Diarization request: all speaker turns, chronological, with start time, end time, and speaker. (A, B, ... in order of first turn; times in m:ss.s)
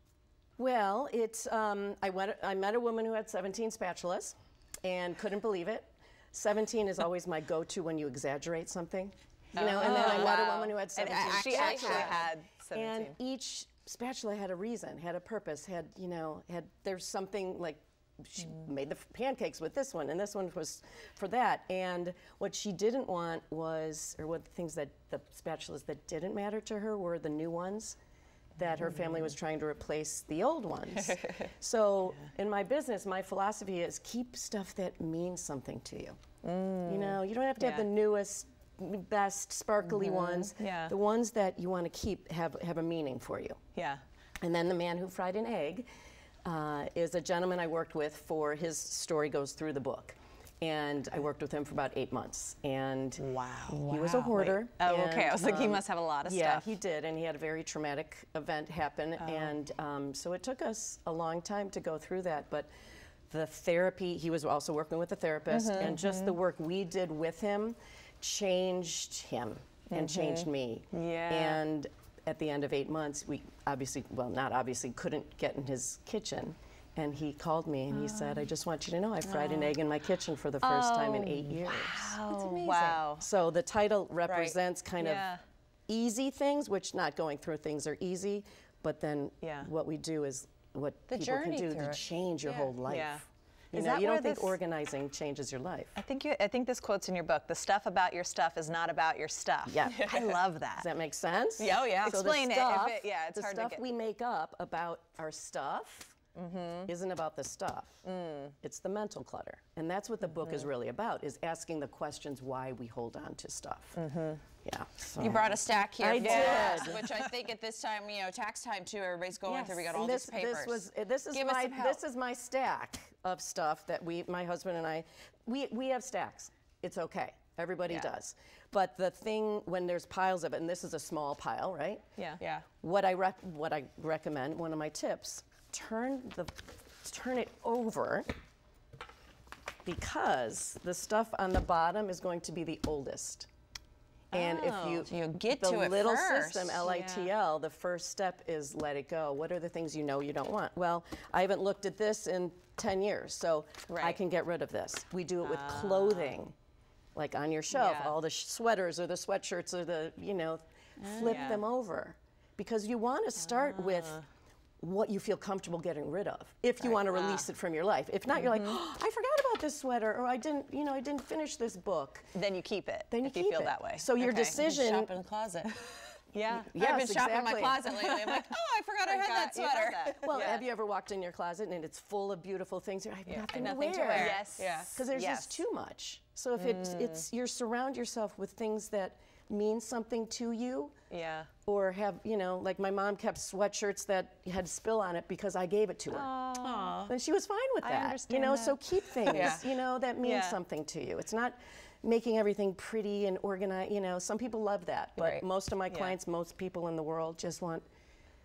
0:00.6-0:28.0 A
0:09.5-0:13.1 B
0:09.6-0:10.5 C
0:11.0-0:12.2 C
0:28.6-0:36.2 A
0:36.4-0:37.9 B
0:36.8-0:43.6 A
0:39.8-0:40.9 B
0:43.8-0:44.0 B
0:44.4-0:45.9 A
0:46.4-1:02.7 A
0:53.2-0:56.8 B
0:59.2-0:59.5 B
1:03.3-1:25.3 A
1:05.5-1:06.4 B
1:09.9-1:11.6 B
1:17.9-1:18.4 B
1:19.2-1:19.7 B
1:20.6-1:23.3 B
1:22.5-1:23.0 C
1:24.2-1:25.4 B
1:25.9-1:36.0 A
1:29.4-1:29.7 B
1:31.1-1:32.0 C
1:32.4-1:34.6 B
1:36.0-1:40.9 B
1:39.7-1:40.1 A
1:40.0-1:40.4 C
1:40.8-1:46.2 A
1:41.6-1:43.8 B
1:46.4-1:46.9 B
1:46.8-1:48.1 A
1:48.0-1:48.5 B
1:48.6-1:54.0 A
1:50.3-1:50.7 B
1:54.0-1:54.4 B
1:54.6-1:57.1 A
1:55.2-2:02.0 C
1:56.2-1:57.2 B
1:59.5-1:59.9 B
1:59.6-2:12.1 A
2:12.8-2:18.3 A
2:19.8-2:23.5 A
2:24.3-2:36.5 A
2:24.3-2:25.1 B
2:25.0-2:26.9 C
2:26.8-2:27.3 B
2:35.4-2:36.3 B
2:37.2-2:44.2 A
2:37.7-2:38.2 B
2:41.0-2:41.6 B
2:43.6-2:44.2 B
2:44.8-2:52.3 A
2:46.8-2:47.5 B
2:48.4-2:48.7 B
2:52.3-2:54.6 B
2:53.1-2:55.1 A
2:54.5-2:55.7 C
2:55.8-2:56.8 B
2:56.4-2:57.9 A
2:56.7-3:00.2 C
2:57.9-2:58.4 B
2:59.0-3:00.7 B
3:00.2-3:11.0 A
3:03.3-3:05.6 B
3:03.5-3:04.9 C
3:06.6-3:07.2 B
3:11.1-3:11.5 B
3:11.6-3:16.3 A
3:16.1-3:17.0 B
3:16.6-3:17.1 C
3:17.1-3:27.8 A
3:17.8-3:19.6 B
3:19.3-3:19.6 C
3:20.2-3:20.6 B
3:25.2-3:26.2 B